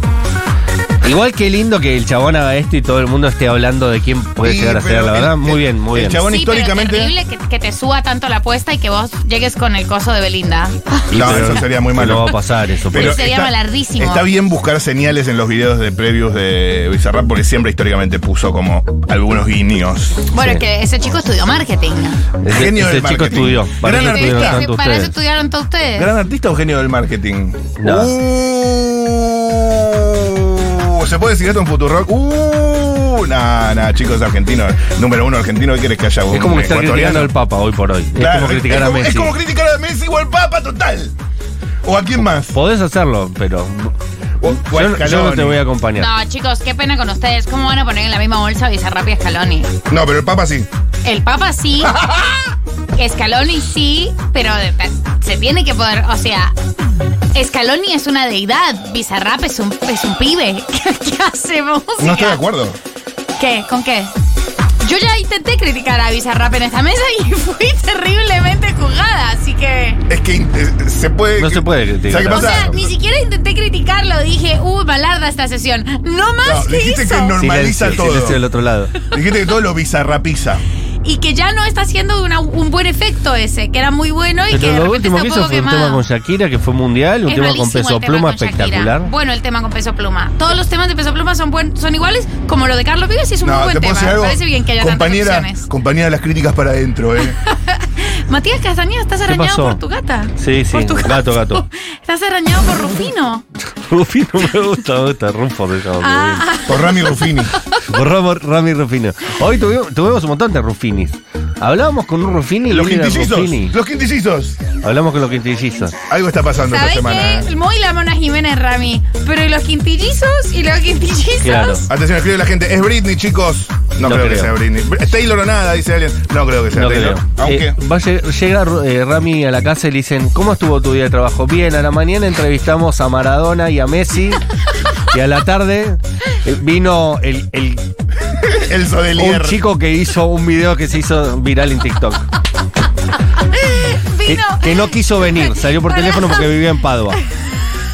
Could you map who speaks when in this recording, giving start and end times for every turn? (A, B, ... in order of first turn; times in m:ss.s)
0:01.0-0:06.2 A
0:04.4-0:07.1 B
0:06.1-0:11.6 C
0:11.1-0:12.4 B
0:11.1-0:13.2 A
0:12.9-0:20.2 B
0:13.0-0:14.3 C
0:20.3-0:22.2 C
0:20.4-0:20.6 A
0:22.4-0:25.2 A
0:22.5-0:24.6 B
0:23.9-0:26.1 C
0:26.0-0:37.3 B
0:27.8-0:28.1 A
0:36.3-0:39.3 A
0:38.2-0:41.1 B
0:41.8-0:42.6 B
0:42.5-0:43.9 A
0:44.4-0:45.6 B
0:44.5-0:46.1 A
0:46.0-0:49.7 C
0:49.9-0:50.7 B
0:51.0-0:51.9 C
0:51.8-0:52.5 B
0:53.0-0:56.5 C
0:57.4-1:02.4 C
1:02.0-1:02.8 B
1:03.4-1:04.1 C
1:04.8-1:10.0 C
1:10.1-1:12.8 B
1:11.4-1:12.7 A
1:12.3-1:17.4 C
1:16.4-1:18.4 B
1:17.4-1:18.9 A
1:19.1-1:20.6 B
1:21.0-1:26.0 C
1:24.5-1:29.1 A
1:27.3-1:35.7 C
1:33.4-1:37.4 B
1:37.3-1:43.4 C
1:39.2-1:39.8 A
1:40.4-1:41.6 A
1:43.8-1:46.5 A
1:46.0-1:47.8 C
1:46.7-1:47.6 B
1:47.9-1:53.8 A
1:52.7-1:54.6 B
1:54.8-1:56.0 A
1:56.1-1:57.5 B
1:56.7-2:01.9 C
2:01.4-2:01.9 A
2:01.9-2:07.8 B
2:04.0-2:04.5 A
2:06.7-2:14.4 A
2:15.1-2:17.9 A
2:18.4-2:19.6 B
2:19.2-2:22.3 A
2:23.5-2:26.5 C
2:24.3-2:27.2 A